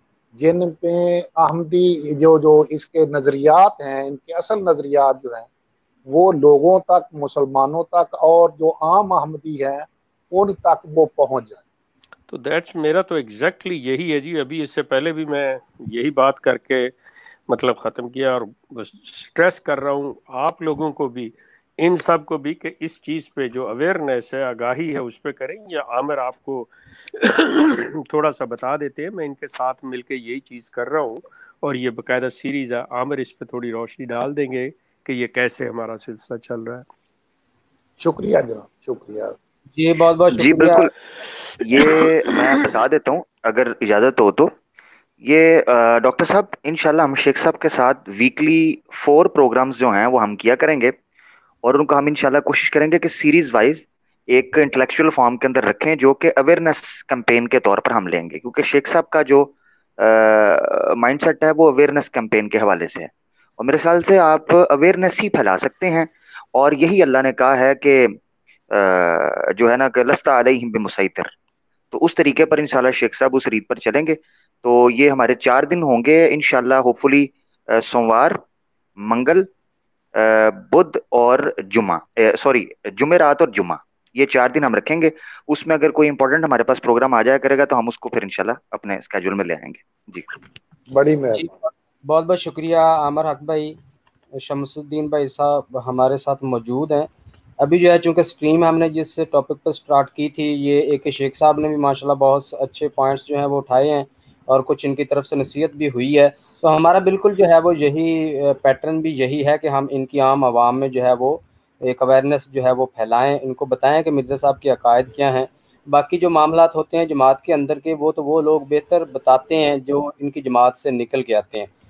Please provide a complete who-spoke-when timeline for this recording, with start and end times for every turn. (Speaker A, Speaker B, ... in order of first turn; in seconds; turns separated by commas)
Speaker A: 0.4-5.5, Speaker A: 6.1-11.6, Speaker B: 12.3-16.9, Speaker B: 17.5-36.9, Speaker A: 38.0-39.4, Speaker C: 39.8-40.9, Speaker D: 40.4-40.9, Speaker B: 41.6-42.4, Speaker D: 41.6-44.5, Speaker D: 45.2-51.0, Speaker D: 51.6-68.2, Speaker D: 68.7-71.3, Speaker D: 71.9-78.4, Speaker D: 79.0-79.5, Speaker D: 80.2-90.3, Speaker A: 90.9-91.5, Speaker C: 91.3-93.8, Speaker C: 94.3-97.1, Speaker C: 97.6-121.7